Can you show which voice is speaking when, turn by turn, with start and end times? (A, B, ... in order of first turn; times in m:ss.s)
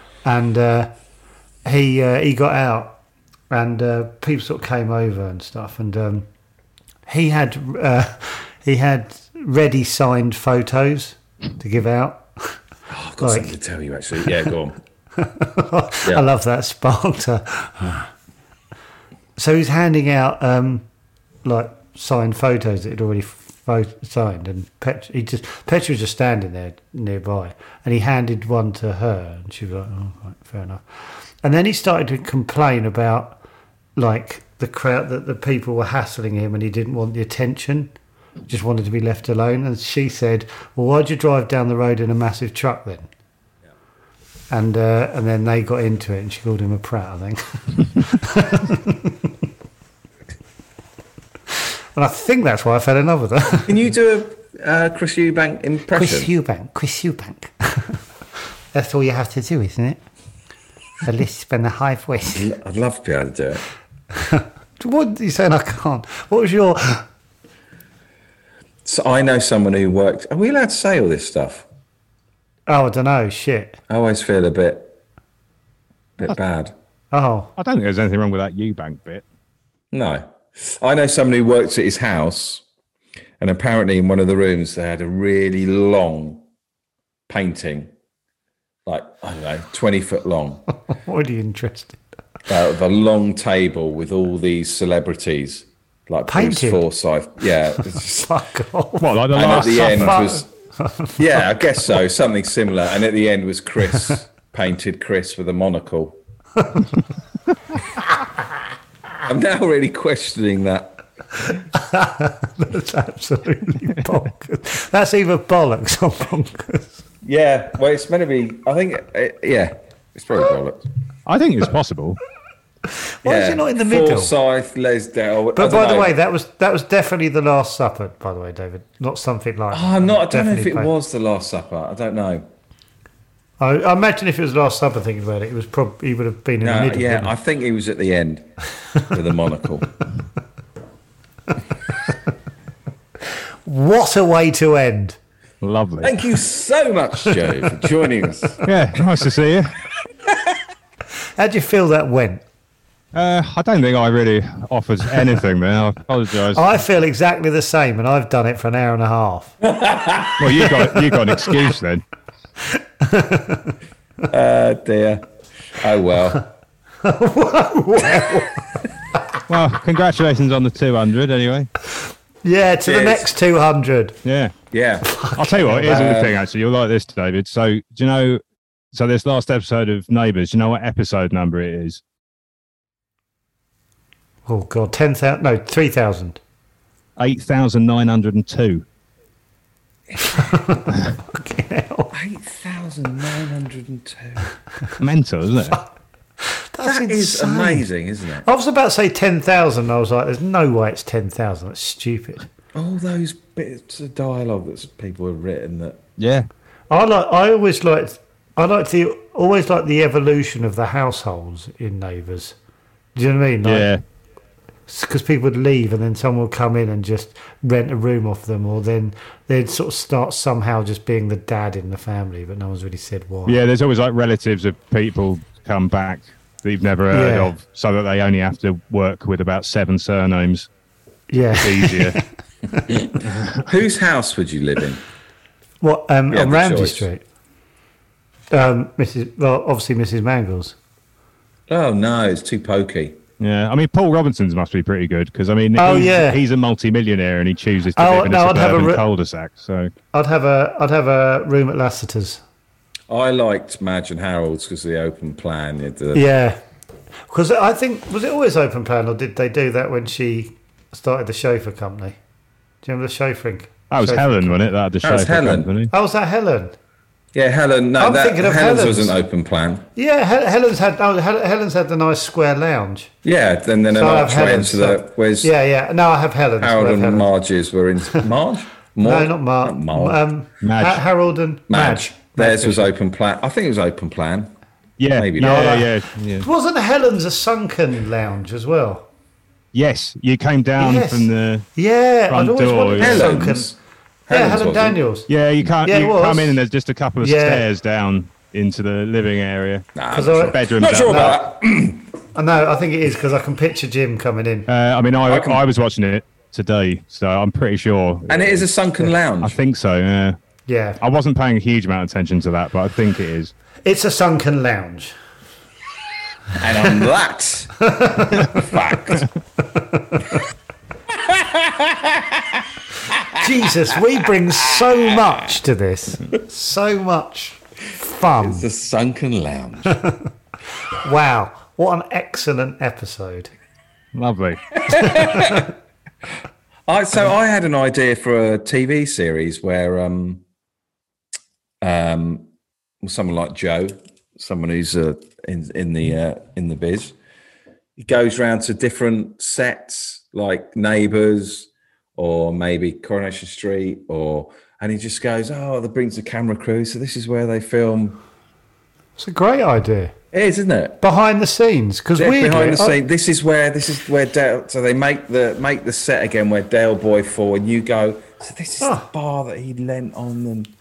0:00.2-0:00.9 A
0:01.6-0:03.0 A
0:03.5-0:06.2 A
0:07.1-0:12.6 A
0:12.9-0:14.8 B
0:13.2-0:13.5 A
0:15.2-0:18.1 A
0:19.4-0:20.8 A
0:21.4-0:30.8 A
0:31.4-0:33.4 A
0:34.0-0:37.9 A
0:38.5-0:43.1 A
0:44.5-0:49.3 A
0:51.9-0:53.8 A
0:53.6-0:56.3 B
0:55.9-0:58.0 A
0:58.7-1:00.0 A
1:01.0-1:02.5 A
1:02.3-1:03.6 B
1:04.1-1:07.1 A
1:08.8-1:11.6 B
1:12.7-1:13.8 A
1:13.9-1:15.0 B
1:16.2-1:16.7 B
1:17.1-1:17.5 A
1:17.6-1:19.2 C
1:19.9-1:22.6 B
1:23.4-1:26.4 B
1:27.3-1:27.9 B
1:28.8-1:30.6 B
1:30.9-1:32.0 A
1:32.5-1:38.3 B
1:36.3-1:36.8 A
1:37.8-1:41.2 A
1:39.0-1:40.2 C
1:39.3-1:40.5 B
1:41.2-1:46.2 B
1:46.6-1:46.9 A
1:49.2-1:51.0 B
1:51.5-1:57.0 A
1:57.2-2:00.8 B
2:01.2-2:02.2 C
2:03.2-2:04.3 A
2:03.2-2:06.1 B
2:05.5-2:10.9 A
2:09.7-2:12.4 B
2:13.6-2:17.3 A
2:16.6-2:18.5 B
2:19.0-2:19.9 B
2:23.6-2:25.2 A
2:25.6-2:26.2 C
2:26.0-2:28.6 B
2:28.6-2:29.7 C
2:30.3-2:30.6 B
2:31.4-2:32.4 A
2:33.1-2:36.7 C
2:36.5-2:39.6 A
2:39.6-2:40.7 B
2:40.4-2:42.0 C
2:43.0-2:43.7 A
2:44.3-2:45.2 B
2:45.8-2:46.4 B
2:47.0-2:48.7 A
2:49.5-2:51.7 C
2:52.4-2:54.2 A
2:52.8-2:53.3 B
2:54.2-2:54.5 C
2:54.7-2:56.4 B
2:55.0-2:56.2 A
2:55.3-2:58.4 C
2:58.9-3:02.0 C
3:04.5-3:06.4 A
3:07.2-3:08.8 C
3:10.2-3:12.1 A
3:12.1-3:14.5 B
3:15.0-3:15.8 C
3:16.4-3:17.9 A
3:16.8-3:18.4 B
3:18.4-3:22.4 A
3:22.7-3:26.0 B
3:26.2-3:26.5 C
3:26.9-3:32.6 A
3:33.1-3:33.9 A
3:33.6-3:34.0 C
3:34.9-3:43.6 A
3:43.4-3:50.7 C
3:47.1-3:47.5 A
3:51.3-3:52.2 A
3:51.6-3:52.2 C
3:52.9-3:55.0 B
3:53.3-3:53.6 C
3:55.8-3:57.2 A
3:56.3-3:57.1 B
3:58.5-4:00.8 A
4:01.7-4:03.2 B
4:03.4-4:09.9 C
4:05.8-4:06.4 A
4:08.0-4:09.0 A
4:10.1-4:12.4 A
4:13.1-4:16.3 B
4:16.1-4:16.6 A
4:17.3-4:22.2 A
4:22.8-4:24.6 A
4:23.9-4:25.9 C
4:25.0-4:25.7 B
4:25.9-4:26.7 A
4:27.3-4:29.9 B
4:28.0-4:29.2 A
4:30.0-4:33.1 A
4:33.2-4:35.5 B
4:33.9-4:37.3 A
4:36.6-4:40.2 B
4:39.0-4:42.9 A
4:40.6-4:41.0 C
4:41.7-4:44.5 B
4:45.0-4:46.4 C
4:45.1-4:45.6 B
4:45.4-4:49.1 A
4:49.7-4:51.7 C
4:50.8-4:53.7 A
4:52.3-4:53.3 C
4:53.0-4:53.8 B
4:54.3-4:55.0 B
4:54.3-4:55.3 A
4:55.3-4:59.9 C
4:55.8-4:56.6 A
4:57.2-4:57.7 A
5:00.0-5:02.1 B
5:00.1-5:01.4 A
5:00.5-5:01.4 C
5:02.3-5:04.7 A
5:04.7-5:08.6 C
5:05.3-5:05.6 B
5:08.3-5:09.6 B
5:09.4-5:10.4 C
5:10.7-5:11.0 A
5:11.0-5:13.5 C
5:13.8-5:15.1 A
5:16.5-5:17.7 B
5:17.8-5:18.7 A
5:18.4-5:19.3 B
5:21.1-5:23.4 B
5:23.3-5:28.7 A
5:24.8-5:25.3 B
5:28.4-5:30.0 B
5:31.0-5:33.5 A
5:34.1-5:35.2 C
5:34.8-5:35.7 B
5:34.9-5:35.6 A
5:36.9-5:40.4 B
5:41.8-5:42.5 B
5:43.0-5:47.2 B
5:48.0-5:58.2 B
5:59.2-6:00.1 A
6:00.3-6:01.0 B
6:01.0-6:03.0 A
6:02.2-6:10.7 B
6:08.8-6:09.1 A